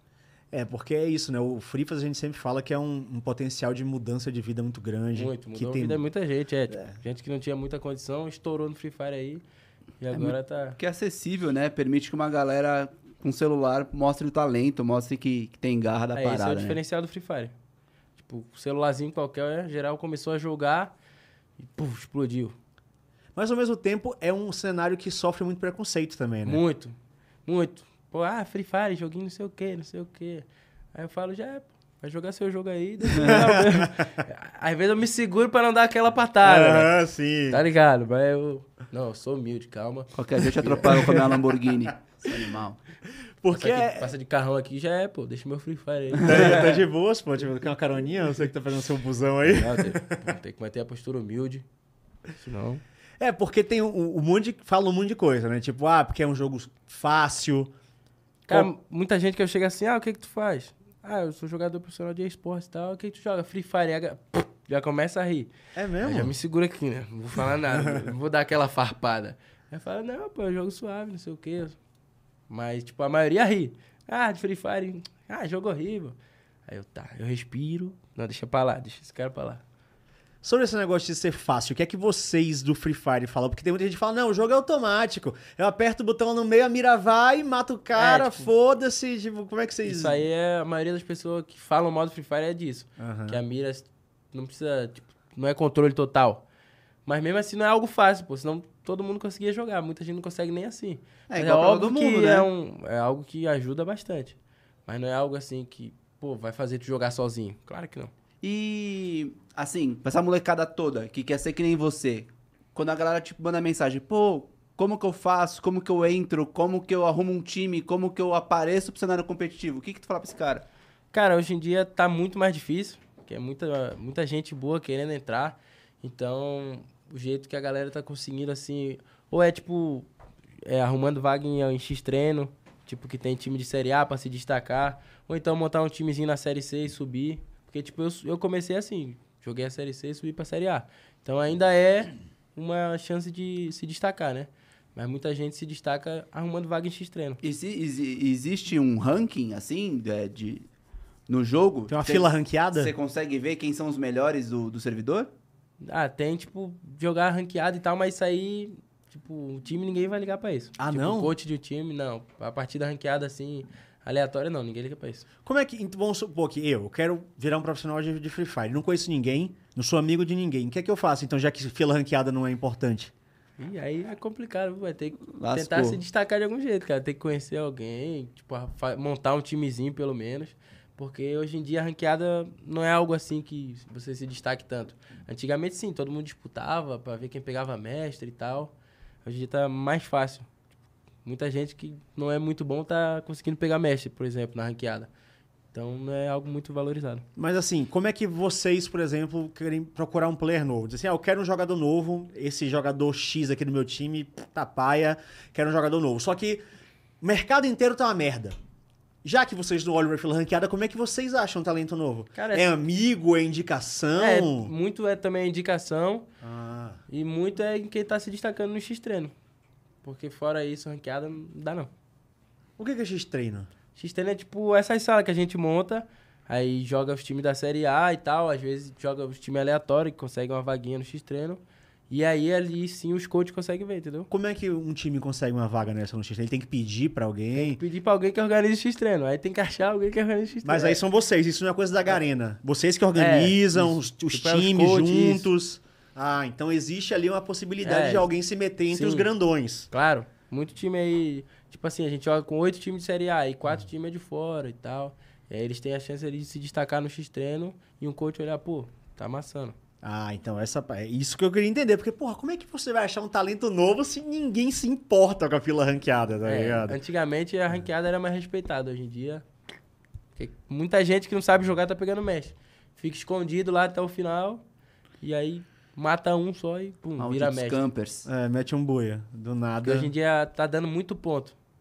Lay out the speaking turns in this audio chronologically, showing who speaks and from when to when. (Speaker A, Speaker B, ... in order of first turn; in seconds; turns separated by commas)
Speaker A: 0.5-6.0, Speaker B: 5.1-9.4, Speaker B: 10.0-10.8, Speaker C: 10.1-16.8, Speaker B: 16.1-17.5, Speaker B: 18.2-20.9, Speaker B: 21.6-22.6, Speaker A: 23.3-26.6, Speaker B: 26.4-37.0, Speaker A: 33.1-34.0, Speaker A: 36.4-37.6, Speaker B: 37.5-41.4, Speaker C: 40.1-42.8, Speaker A: 43.4-44.1, Speaker B: 43.5-46.7, Speaker A: 46.2-50.1, Speaker B: 49.5-51.6, Speaker B: 52.3-52.8, Speaker A: 53.2-57.7, Speaker B: 58.5-71.8, Speaker A: 65.7-66.3, Speaker A: 67.7-68.0, Speaker B: 72.5-79.6, Speaker A: 80.4-90.2, Speaker B: 87.9-88.5, Speaker B: 89.8-96.4, Speaker A: 93.0-93.4, Speaker B: 97.0-108.1, Speaker C: 101.3-102.5, Speaker C: 108.4-120.6, Speaker B: 121.1-130.1, Speaker B: 130.6-147.4, Speaker C: 147.4-150.7, Speaker C: 151.3-155.3, Speaker A: 151.9-152.9, Speaker B: 155.8-165.2, Speaker A: 160.8-161.3, Speaker A: 165.4-173.1, Speaker B: 173.6-188.7, Speaker C: 175.3-176.0, Speaker B: 189.2-190.5, Speaker B: 191.2-195.1, Speaker B: 195.7-197.2, Speaker A: 197.3-206.6, Speaker A: 207.2-208.6, Speaker A: 209.2-214.7, Speaker B: 212.3-212.7, Speaker B: 214.2-216.3, Speaker A: 216.4-217.0, Speaker B: 217.1-219.3, Speaker B: 220.0-221.9, Speaker A: 222.8-223.7, Speaker B: 223.9-234.3, Speaker A: 234.3-237.8, Speaker B: 237.5-241.0, Speaker A: 240.6-249.9, Speaker B: 243.1-245.5, Speaker B: 247.8-248.3, Speaker B: 248.9-249.3, Speaker B: 249.9-259.8, Speaker A: 260.0-267.0, Speaker B: 266.4-269.4, Speaker B: 270.4-274.6, Speaker B: 275.2-277.8, Speaker C: 277.2-278.3, Speaker A: 278.2-280.1, Speaker B: 279.8-281.5